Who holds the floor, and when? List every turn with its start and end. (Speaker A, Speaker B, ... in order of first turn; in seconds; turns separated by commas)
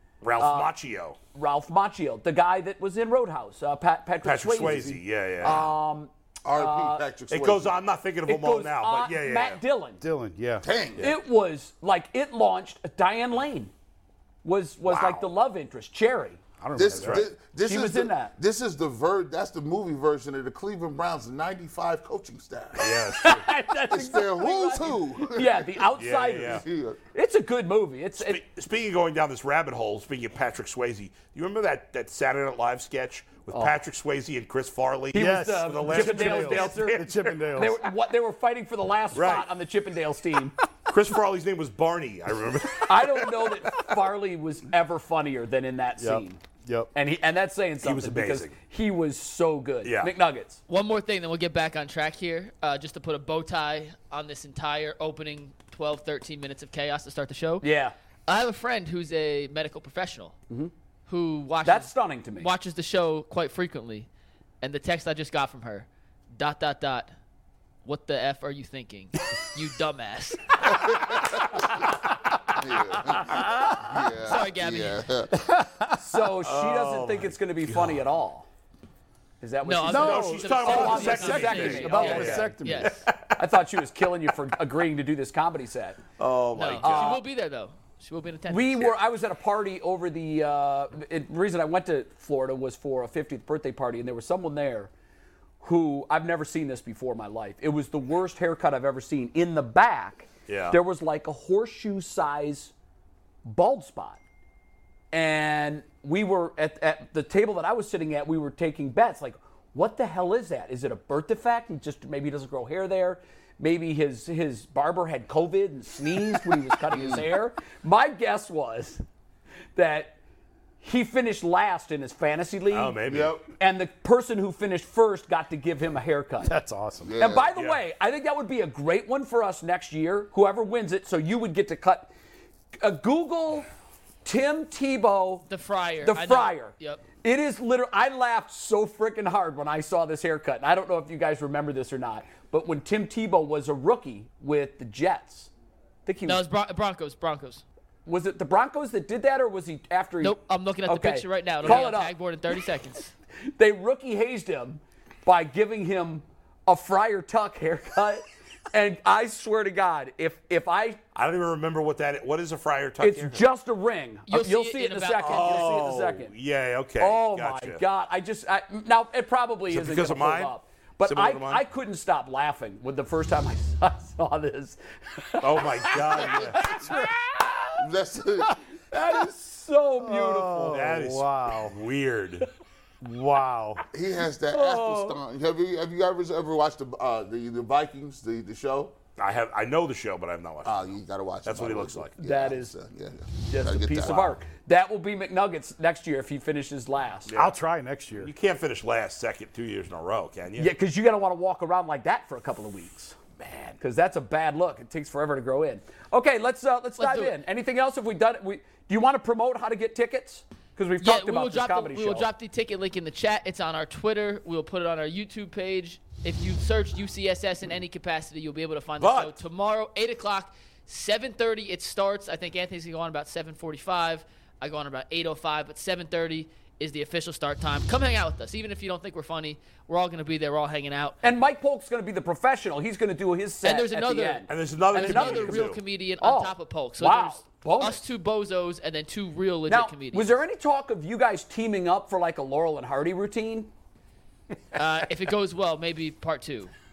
Speaker A: 0.2-1.2, Speaker B: 0.4-0.8, Speaker B: 1.3-7.1, Speaker A: 4.2-5.8, Speaker C: 4.6-5.0, Speaker D: 6.5-7.8, Speaker A: 7.3-9.6, Speaker B: 8.2-10.0, Speaker C: 10.0-10.7, Speaker D: 10.6-11.1, Speaker B: 11.0-13.7, Speaker B: 14.4-16.4, Speaker A: 14.9-15.2, Speaker C: 16.6-17.3, Speaker D: 16.8-23.1, Speaker B: 17.6-18.3, Speaker A: 22.8-23.4, Speaker B: 22.8-28.4, Speaker D: 23.9-25.9, Speaker A: 26.0-26.6, Speaker D: 26.4-27.0, Speaker A: 28.2-37.4, Speaker B: 33.5-33.8, Speaker B: 35.1-40.5, Speaker C: 35.1-37.8, Speaker A: 39.1-39.5, Speaker A: 40.9-43.9, Speaker B: 42.9-46.4, Speaker C: 46.0-46.9, Speaker B: 46.9-50.6, Speaker A: 47.8-48.5, Speaker A: 49.8-50.1, Speaker E: 50.7-57.7, Speaker B: 57.6-57.9, Speaker E: 58.3-60.4, Speaker E: 61.1-64.1, Speaker B: 61.6-62.5, Speaker E: 64.6-67.1, Speaker E: 67.8-71.1, Speaker D: 70.7-71.7, Speaker D: 72.6-75.3, Speaker B: 73.2-73.5, Speaker E: 74.2-75.1, Speaker C: 75.3-76.3, Speaker B: 76.0-78.5, Speaker A: 76.4-78.0, Speaker B: 79.4-82.6, Speaker E: 79.7-83.1, Speaker C: 79.9-83.0, Speaker A: 79.9-82.4, Speaker A: 83.1-83.3, Speaker B: 83.4-86.0, Speaker A: 86.2-87.2, Speaker E: 86.5-89.0, Speaker B: 86.8-87.2, Speaker B: 88.5-94.9, Speaker B: 95.6-102.7, Speaker A: 100.5-100.8, Speaker B: 103.4-104.2, Speaker B: 105.1-119.0, Speaker D: 116.9-117.3, Speaker B: 119.8-120.2, Speaker B: 120.8-123.0, Speaker A: 122.7-123.4, Speaker D: 123.1-123.4, Speaker B: 123.6-126.5, Speaker C: 126.4-127.1, Speaker D: 127.0-127.5, Speaker B: 127.2-132.1, Speaker A: 127.5-127.8, Speaker B: 132.8-133.7, Speaker B: 134.2-135.5, Speaker E: 135.5-137.0, Speaker B: 136.0-145.5, Speaker B: 146.1-146.4, Speaker E: 146.3-147.6, Speaker B: 148.1-152.1, Speaker E: 150.2-153.1, Speaker B: 153.6-161.0, Speaker A: 161.2-163.5, Speaker B: 163.0-166.3, Speaker E: 164.3-165.7, Speaker A: 165.2-167.8, Speaker B: 167.0-177.8, Speaker A: 169.7-170.5, Speaker A: 171.0-171.6, Speaker A: 175.4-176.8, Speaker D: 177.8-178.6, Speaker B: 178.5-180.8, Speaker C: 180.0-181.8, Speaker A: 180.7-182.5, Speaker C: 183.0-183.8, Speaker D: 183.9-188.9, Speaker B: 184.5-185.2, Speaker A: 189.2-190.9, Speaker D: 190.7-194.4, Speaker A: 191.4-192.2, Speaker B: 192.2-192.7, Speaker B: 193.5-197.3, Speaker A: 197.3-197.6, Speaker C: 197.4-198.3, Speaker A: 198.2-200.7, Speaker B: 200.6-203.2, Speaker A: 203.4-203.8, Speaker B: 203.8-212.3, Speaker E: 207.0-207.3, Speaker E: 211.0-231.2, Speaker A: 219.0-219.4, Speaker B: 231.2-238.0, Speaker E: 233.6-240.4, Speaker A: 234.5-235.8, Speaker B: 239.7-243.7, Speaker E: 244.7-246.7